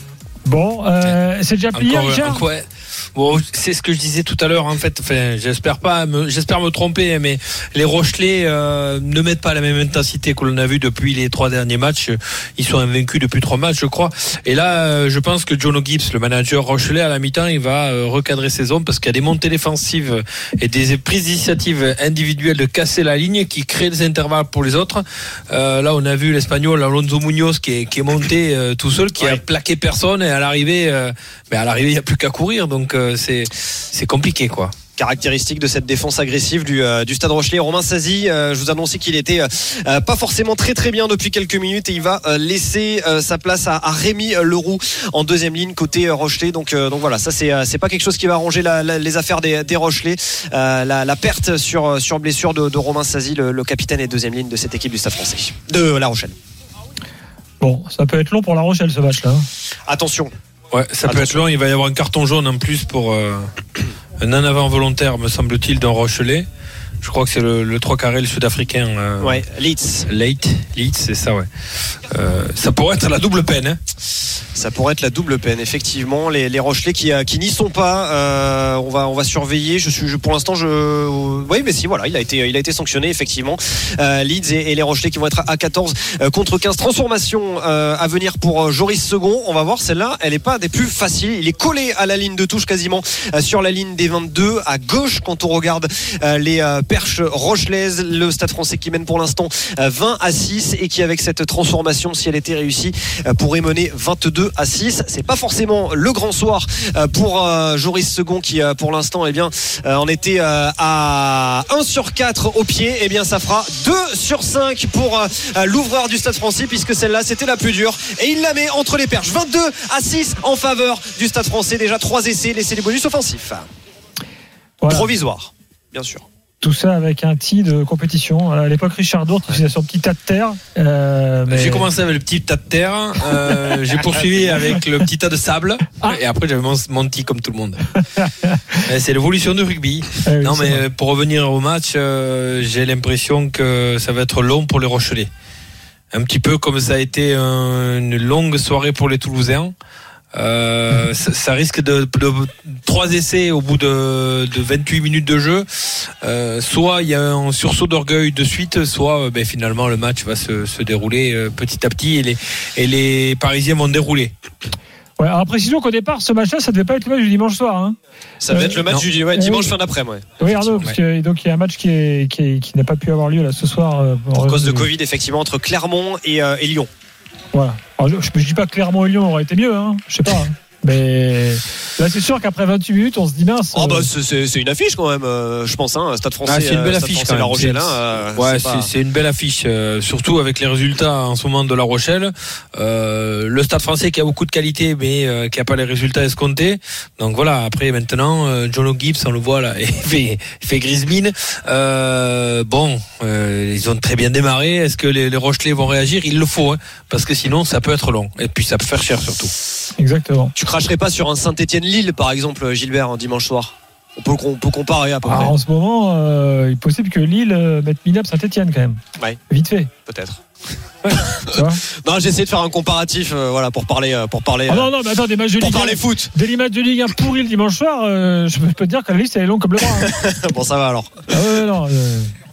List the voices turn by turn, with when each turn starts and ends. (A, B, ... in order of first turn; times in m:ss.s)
0:00.5-0:02.4 A
0:01.7-0:34.7 B
0:35.0-0:56.3 C
0:57.6-0:59.5 A
0:59.9-1:00.3 C
1:00.7-1:06.5 B
1:01.1-1:01.4 C
1:07.0-1:09.4 B
1:09.2-1:10.1 C
1:10.1-1:11.5 B
1:12.1-1:13.8 B
1:14.6-2:03.7 C
2:04.8-2:05.1 A
2:04.9-2:06.2 C
2:06.6-2:11.9 A
2:11.5-2:17.9 B
2:18.2-2:18.6 A
2:18.8-2:25.3 B
2:20.2-2:20.8 A
2:26.1-2:29.7 B
2:30.4-2:35.7 B
2:36.2-2:44.3 B
2:45.2-2:48.0 A
2:48.4-2:50.4 C
2:48.5-2:49.8 A
2:50.4-2:54.9 A
2:54.4-2:56.9 C
2:57.5-3:04.1 A
3:03.8-3:08.9 C
3:06.4-3:29.5 B
3:30.0-3:30.5 A
3:30.6-3:35.5 C
3:35.2-3:39.9 A
3:40.1-3:40.4 C
3:41.2-3:41.5 C
3:41.5-3:41.8 A
3:42.0-3:44.9 C
3:44.7-3:50.1 A
3:45.6-3:46.3 C
3:50.0-3:51.2 C
3:51.3-3:52.3 A